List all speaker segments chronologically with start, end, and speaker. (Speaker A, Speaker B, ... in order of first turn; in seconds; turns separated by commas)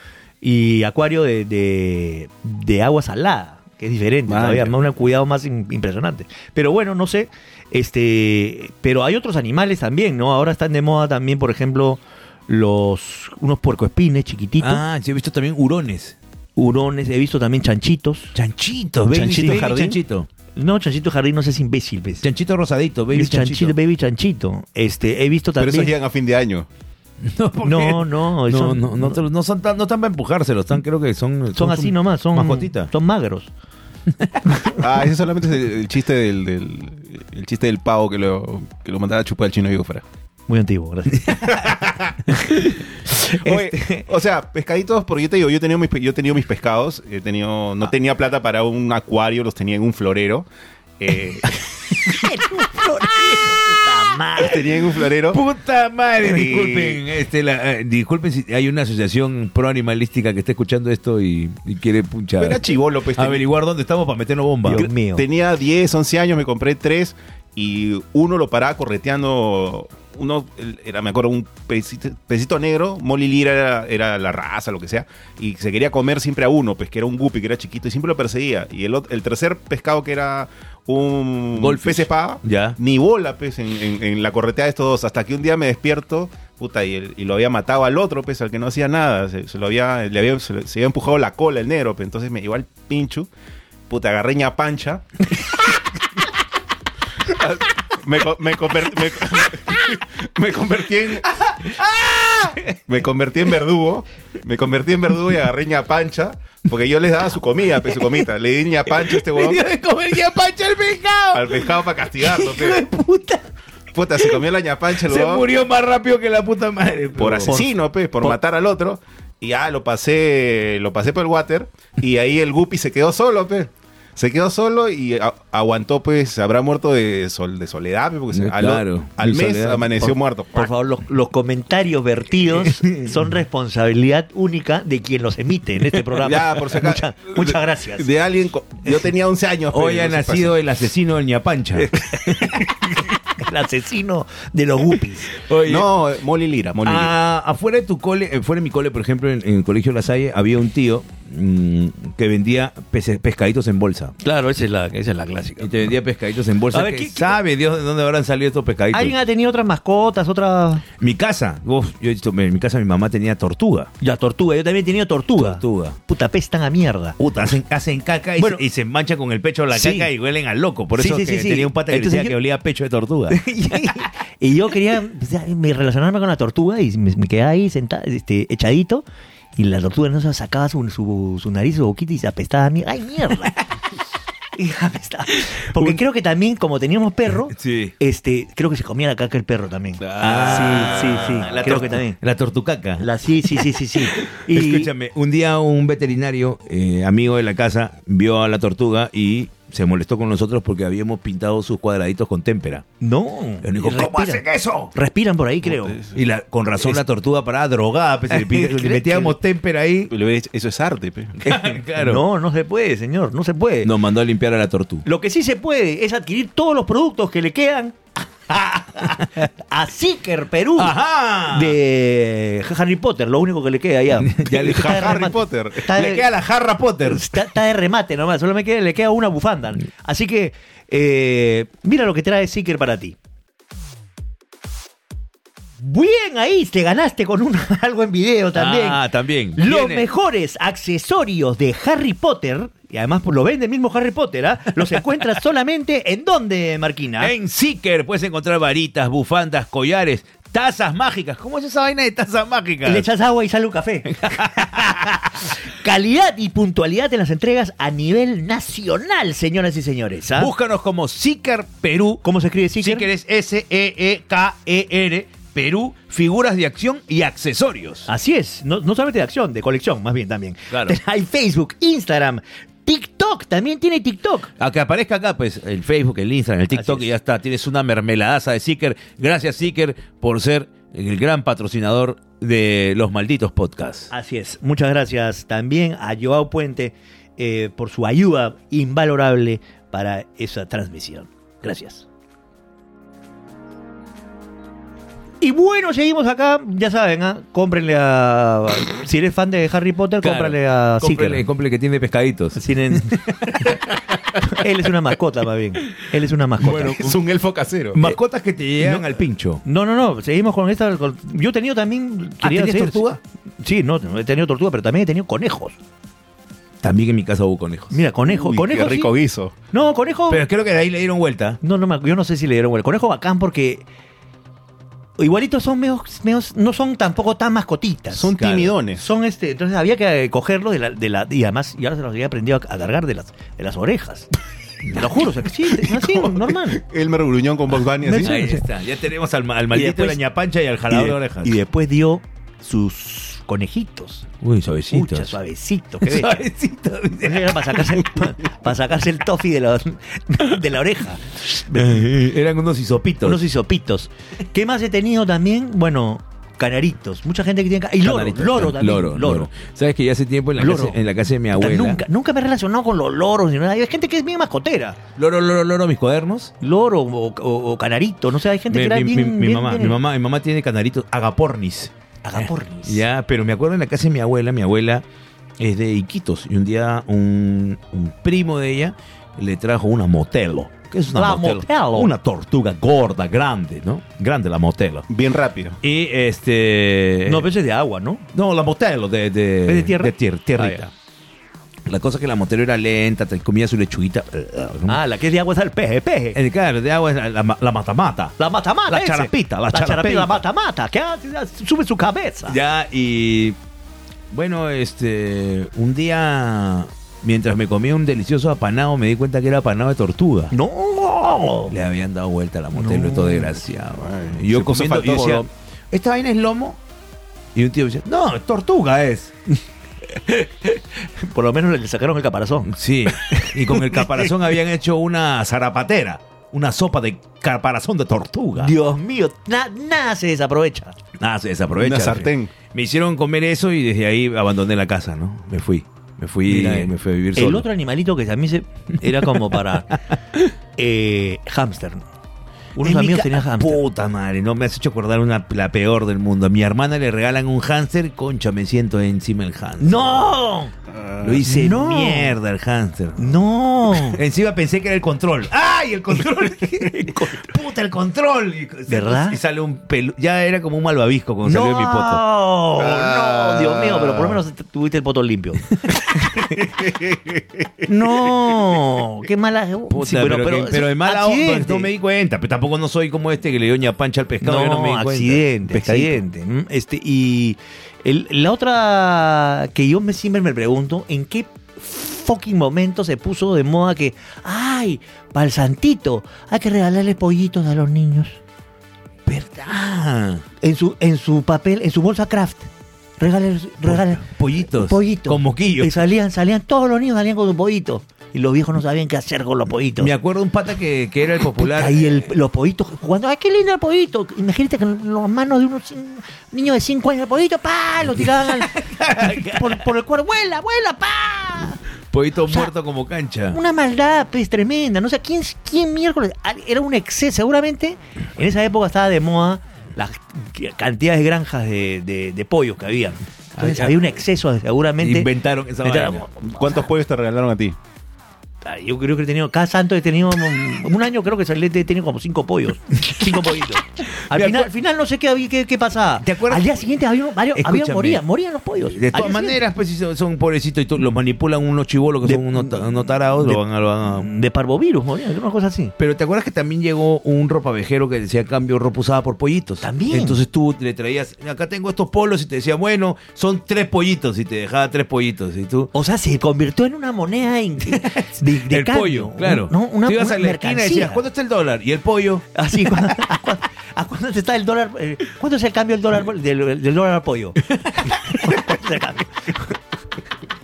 Speaker A: 0.4-14.8, Speaker B: 4.3-4.8, Speaker C: 14.6-16.2, Speaker A: 16.6-18.4, Speaker C: 18.4-20.3, Speaker A: 19.1-19.8, Speaker B: 19.2-20.0, Speaker A: 20.6-22.3, Speaker C: 22.2-23.8, Speaker A: 23.1-25.9, Speaker B: 25.6-26.7, Speaker C: 27.2-32.9, Speaker A: 27.6-29.2, Speaker A: 31.6-33.5, Speaker C: 34.2-34.4, Speaker A: 34.5-34.8, Speaker B: 34.8-40.0, Speaker A: 40.5-41.8, Speaker B: 41.5-42.2, Speaker A: 42.3-44.1, Speaker B: 43.3-50.5, Speaker B: 51.0-51.6, Speaker A: 52.1-54.6, Speaker B: 54.4-55.4, Speaker C: 55.3-64.9, Speaker B: 56.2-57.0, Speaker B: 62.4-63.4, Speaker A: 64.6-65.2, Speaker B: 64.7-93.3, Speaker C: 81.5-82.8, Speaker B: 93.9-95.3, Speaker B: 97.2-101.7, Speaker B: 102.9-109.6, Speaker C: 109.2-111.7, Speaker B: 111.3-112.9, Speaker A: 112.4-113.5, Speaker B: 113.9-115.5, Speaker C: 115.0-117.6, Speaker B: 117.2-130.7, Speaker C: 128.3-130.1, Speaker A: 130.5-138.1, Speaker C: 132.6-133.1, Speaker B: 136.2-140.6, Speaker C: 139.7-142.6, Speaker A: 142.0-145.4, Speaker C: 145.4-145.9, Speaker B: 145.6-147.1, Speaker C: 146.8-154.2, Speaker A: 154.2-155.9, Speaker C: 155.6-159.2, Speaker A: 156.7-157.4, Speaker A: 158.9-160.8, Speaker C: 161.0-163.9, Speaker A: 164.0-167.2, Speaker C: 165.4-166.0, Speaker C: 167.2-173.4, Speaker A: 168.4-168.6, Speaker A: 169.7-170.1, Speaker A: 171.0-172.3, Speaker A: 173.3-179.1, Speaker A: 179.6-183.6, Speaker A: 184.6-192.2, Speaker C: 187.5-187.9, Speaker C: 190.1-193.1, Speaker A: 193.0-194.9, Speaker C: 194.0-202.8, Speaker A: 203.0-206.0, Speaker C: 203.6-204.9, Speaker B: 205.6-206.2, Speaker C: 206.1-210.1, Speaker A: 208.3-209.3, Speaker B: 210.1-211.4, Speaker C: 211.4-212.2, Speaker A: 211.5-213.9, Speaker C: 213.8-215.1, Speaker A: 215.0-218.0, Speaker A: 218.5-226.3, Speaker C: 220.8-221.8, Speaker C: 224.2-225.2, Speaker B: 224.5-225.9, Speaker C: 225.9-227.4, Speaker A: 227.1-233.2, Speaker A: 235.8-247.3, Speaker C: 238.5-240.1, Speaker C: 247.2-253.1, Speaker A: 252.8-260.5, Speaker C: 254.1-255.3, Speaker C: 260.4-262.2, Speaker A: 262.2-263.1, Speaker C: 262.8-268.1, Speaker A: 268.1-274.5, Speaker C: 270.7-271.0, Speaker C: 274.6-284.1, Speaker A: 276.7-277.1, Speaker A: 284.1-292.1, Speaker A: 295.4-301.4, Speaker C: 300.2-303.2, Speaker A: 302.6-303.8, Speaker A: 304.4-307.1, Speaker C: 306.6-307.2, Speaker B: 306.7-308.1, Speaker C: 307.9-309.6, Speaker A: 308.8-313.0, Speaker C: 312.4-313.2, Speaker A: 313.6-315.8, Speaker C: 316.8-318.0, Speaker A: 317.9-319.1, Speaker B: 318.3-319.6, Speaker A: 319.7-320.4, Speaker C: 320.3-321.6, Speaker A: 321.6-323.9, Speaker A: 325.2-334.3, Speaker B: 328.1-329.1, Speaker C: 328.4-328.7, Speaker A: 334.9-336.8, Speaker B: 336.0-338.4, Speaker A: 338.0-338.6, Speaker C: 338.2-341.6, Speaker A: 339.7-340.2, Speaker A: 340.9-344.3, Speaker C: 344.4-345.4, Speaker A: 344.9-346.5, Speaker C: 346.0-348.0, Speaker A: 347.2-352.1, Speaker C: 351.7-353.4, Speaker A: 353.2-359.5, Speaker C: 358.0-362.0, Speaker A: 360.6-361.0, Speaker A: 361.5-365.0, Speaker C: 365.2-366.5, Speaker A: 366.6-370.0, Speaker C: 368.7-375.1, Speaker A: 372.2-373.0, Speaker C: 375.6-385.1, Speaker A: 381.1-382.1, Speaker B: 385.1-385.8, Speaker C: 385.8-387.5, Speaker A: 387.3-388.3, Speaker C: 388.3-390.9, Speaker A: 389.6-390.9, Speaker C: 391.9-395.0, Speaker A: 394.9-396.4, Speaker C: 396.3-398.4, Speaker A: 398.4-402.6, Speaker C: 398.9-400.4, Speaker C: 402.5-403.6, Speaker C: 404.3-410.5, Speaker A: 410.5-411.8, Speaker C: 411.7-416.8, Speaker A: 412.7-413.6, Speaker B: 414.0-415.4, Speaker A: 415.1-415.4, Speaker C: 417.6-419.3, Speaker A: 420.2-424.3, Speaker C: 422.7-428.8, Speaker A: 428.6-431.0, Speaker C: 431.2-437.7, Speaker B: 431.8-432.5, Speaker A: 436.5-440.0, Speaker A: 440.8-442.1, Speaker A: 442.8-443.8, Speaker C: 442.8-450.3, Speaker A: 449.8-450.7, Speaker B: 450.9-451.4, Speaker C: 451.2-453.4, Speaker A: 451.4-452.4, Speaker A: 453.2-454.2, Speaker C: 453.9-462.2, Speaker A: 456.3-457.6, Speaker A: 458.9-459.4, Speaker A: 461.4-466.7, Speaker B: 462.8-464.2, Speaker B: 466.6-467.4, Speaker A: 467.9-471.9, Speaker C: 469.9-476.2, Speaker A: 474.4-488.4, Speaker C: 489.3-490.4, Speaker A: 490.6-500.1, Speaker C: 493.8-495.9, Speaker C: 500.0-502.3, Speaker A: 501.6-511.8, Speaker C: 508.4-509.8, Speaker C: 512.1-513.6, Speaker A: 512.5-512.7, Speaker A: 513.5-525.3, Speaker C: 523.6-524.2, Speaker C: 525.0-526.2, Speaker A: 525.8-526.9, Speaker B: 526.4-527.8, Speaker A: 528.6-539.6, Speaker C: 534.3-534.7, Speaker C: 536.2-536.8, Speaker C: 537.5-538.2, Speaker C: 538.8-544.3, Speaker A: 542.2-545.9, Speaker C: 546.0-555.9, Speaker A: 549.8-550.4, Speaker A: 555.9-561.2, Speaker C: 557.9-562.5, Speaker A: 562.5-569.8